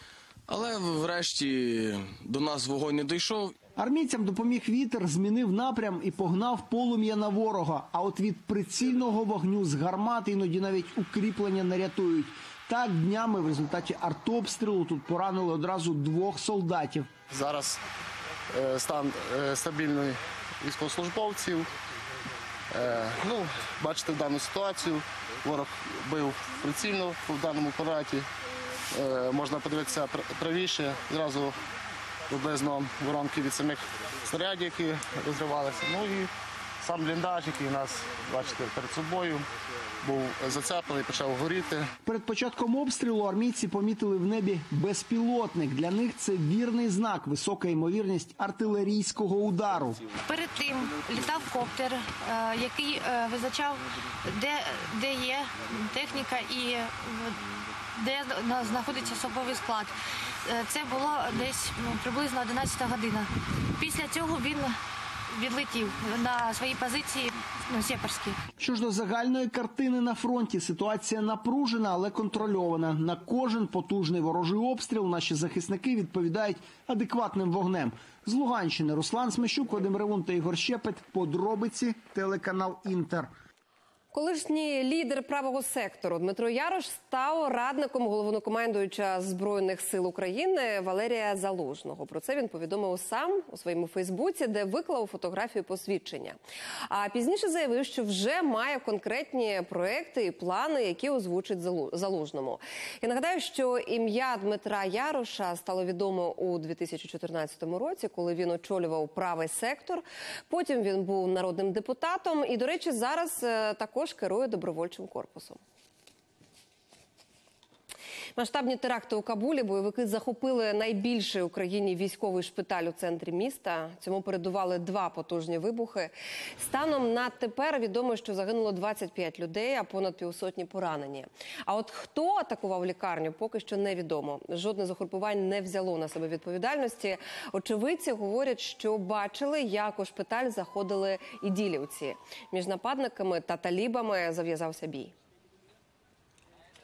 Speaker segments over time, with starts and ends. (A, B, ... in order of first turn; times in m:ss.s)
0:00.5-0:03.6 A
0:03.8-0:17.1 B
0:17.3-0:17.8 C
0:18.5-0:21.7 C
0:22.7-0:28.3 C
0:28.9-0:31.5 C
0:32.3-0:39.4 C
0:40.0-0:41.9 C
0:42.0-0:50.0 B
0:50.2-0:57.4 D
0:58.0-1:04.8 D
1:05.3-1:08.4 D
1:08.6-1:23.3 B
1:24.1-1:55.6 E
1:58.4-2:25.1 E